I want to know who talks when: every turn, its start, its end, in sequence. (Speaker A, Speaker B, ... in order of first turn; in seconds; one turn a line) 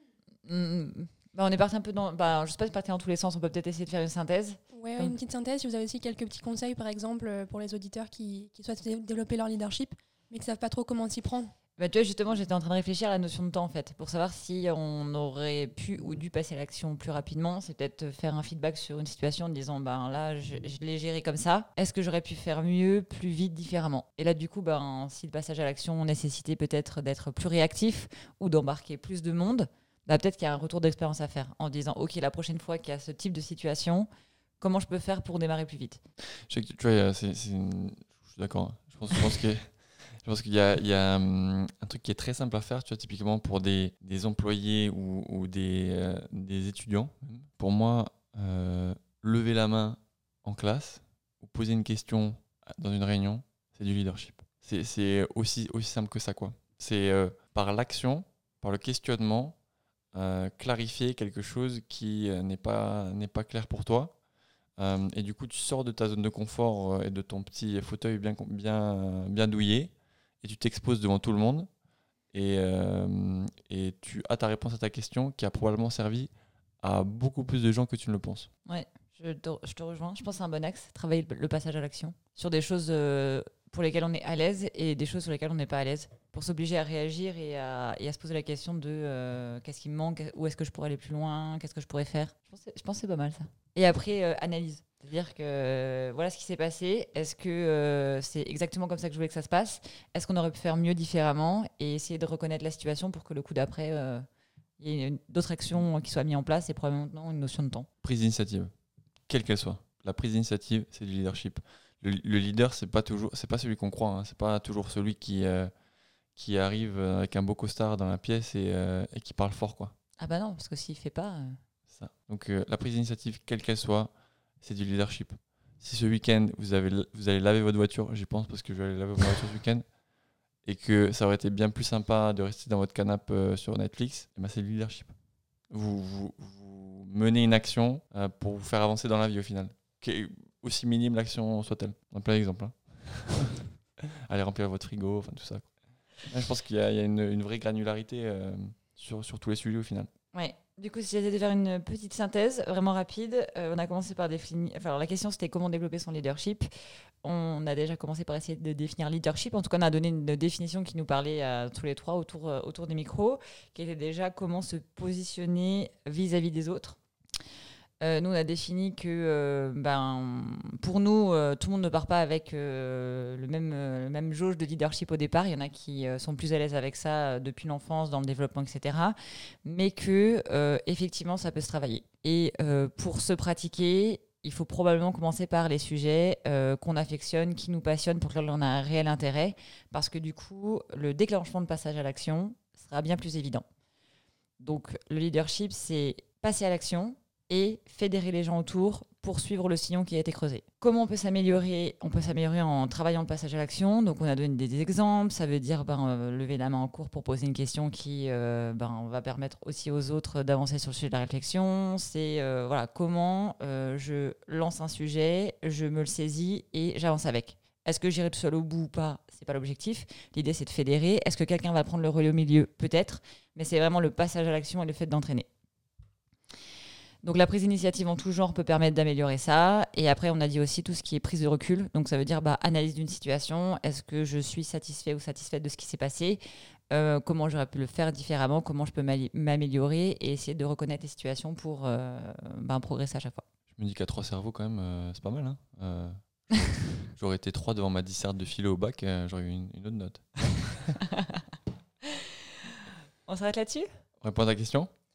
Speaker A: 0.5-5.2
Speaker B: 4.7-11.5
Speaker A: 11.8-34.1
Speaker A: 34.6-36.0
Speaker C: 36.5-59.5
Speaker C: 60.1-64.2
Speaker C: 64.8-71.7
Speaker C: 72.3-78.5
Speaker A: 78.7-104.2
Speaker A: 104.8-107.9
Speaker C: 108.0-108.7
Speaker C: 109.3-115.7
Speaker C: 116.3-119.9
Speaker A: 120.2-121.6
Speaker C: 121.9-129.8
Speaker C: 130.6-135.1
Speaker C: 135.7-143.7
Speaker C: 144.2-150.1
Speaker A: 150.3-156.7
Speaker A: 157.2-167.0
Speaker A: 168.0-193.6
Speaker A: 194.6-225.5
Speaker A: 227.2-243.4
Speaker C: 243.7-251.0
Speaker A: 251.1-251.4
Speaker A: 253.2-253.9
Speaker C: 254.2-254.9